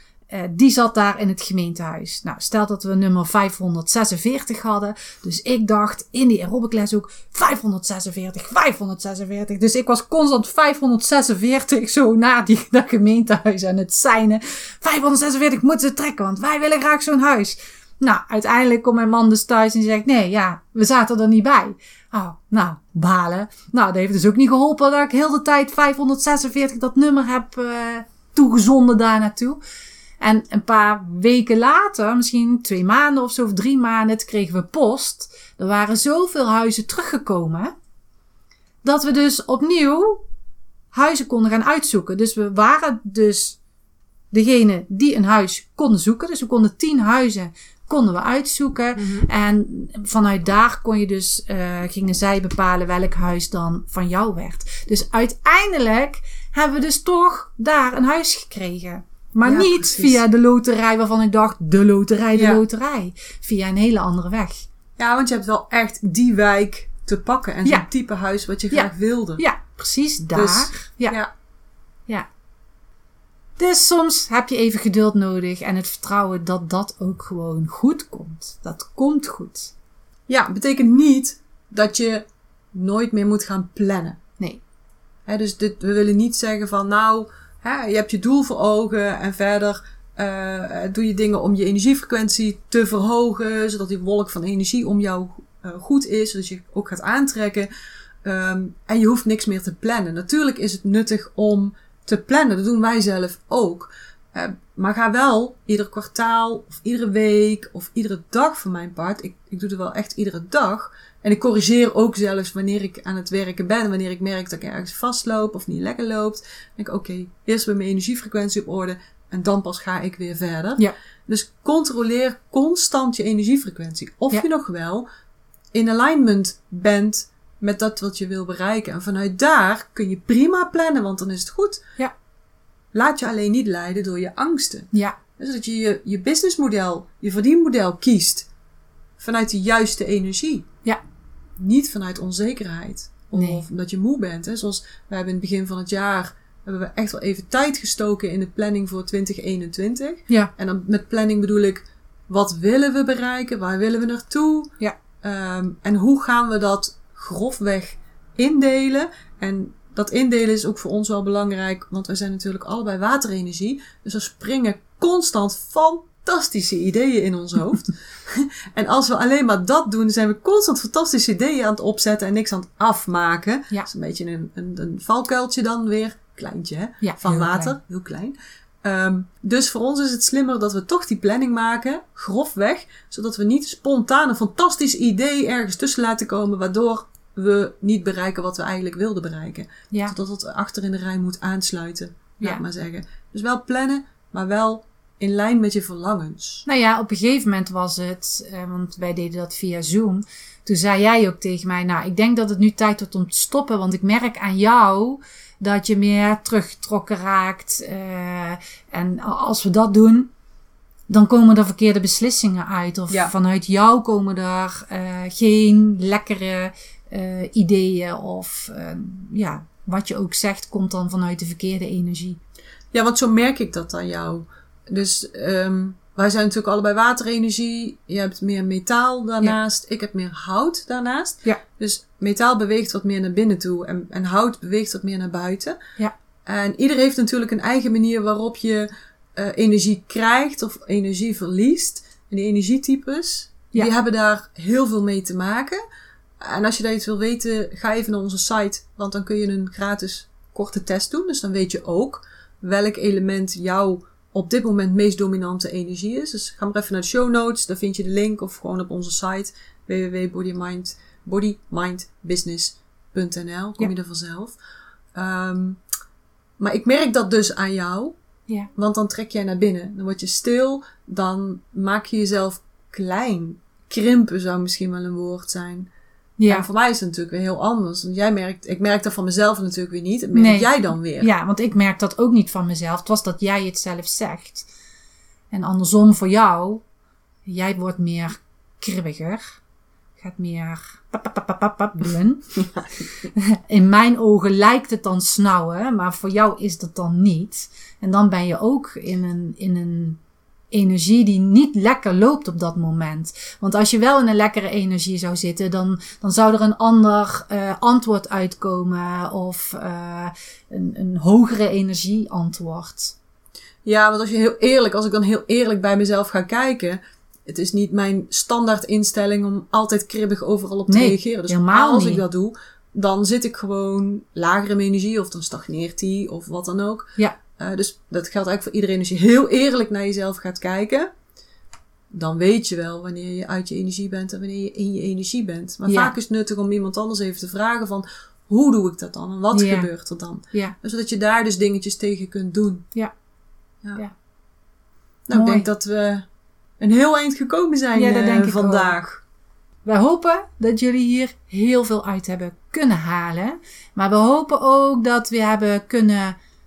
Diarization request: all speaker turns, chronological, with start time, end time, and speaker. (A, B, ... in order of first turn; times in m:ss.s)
0:00.3-0:29.6 A
0:30.2-0:37.7 A
0:38.8-0:40.2 A
0:40.9-0:43.6 A
0:44.3-1:04.6 A
0:49.0-0:49.3 B
0:59.4-1:00.2 B
1:02.3-1:02.6 B
1:05.0-1:09.4 B
1:08.7-1:11.2 A
1:10.3-1:11.3 B
1:13.6-1:19.7 A
1:20.3-1:24.2 B
1:25.3-1:37.7 B
1:38.2-2:05.0 B
2:05.7-2:11.8 B
2:12.9-2:18.5 B
2:14.9-2:15.2 A
2:19.2-2:20.7 B
2:21.6-3:16.6 B
2:23.3-2:23.6 A
2:57.0-2:57.8 A
3:16.6-3:30.3 A
3:31.1-3:42.4 A
3:42.9-3:55.8 B
3:56.4-4:05.8 B
4:06.4-4:24.6 B
4:25.1-4:25.8 B
4:26.6-4:28.2 B
4:28.7-4:35.9 B
4:36.4-4:36.7 A
4:36.5-4:41.3 B
4:40.3-4:44.7 A
4:45.5-4:46.8 A
4:47.4-4:49.6 A
4:50.2-4:52.5 A
4:53.3-5:00.2 A
5:00.7-5:13.2 A
5:13.8-5:31.1 B
5:20.9-5:22.2 A
5:32.1-5:42.8 B
5:35.9-5:36.1 A
5:39.5-5:39.9 A
5:45.3-5:46.2 B
5:45.3-5:45.7 A
5:46.8-5:49.2 B
5:47.9-5:49.0 A
5:49.8-5:56.4 A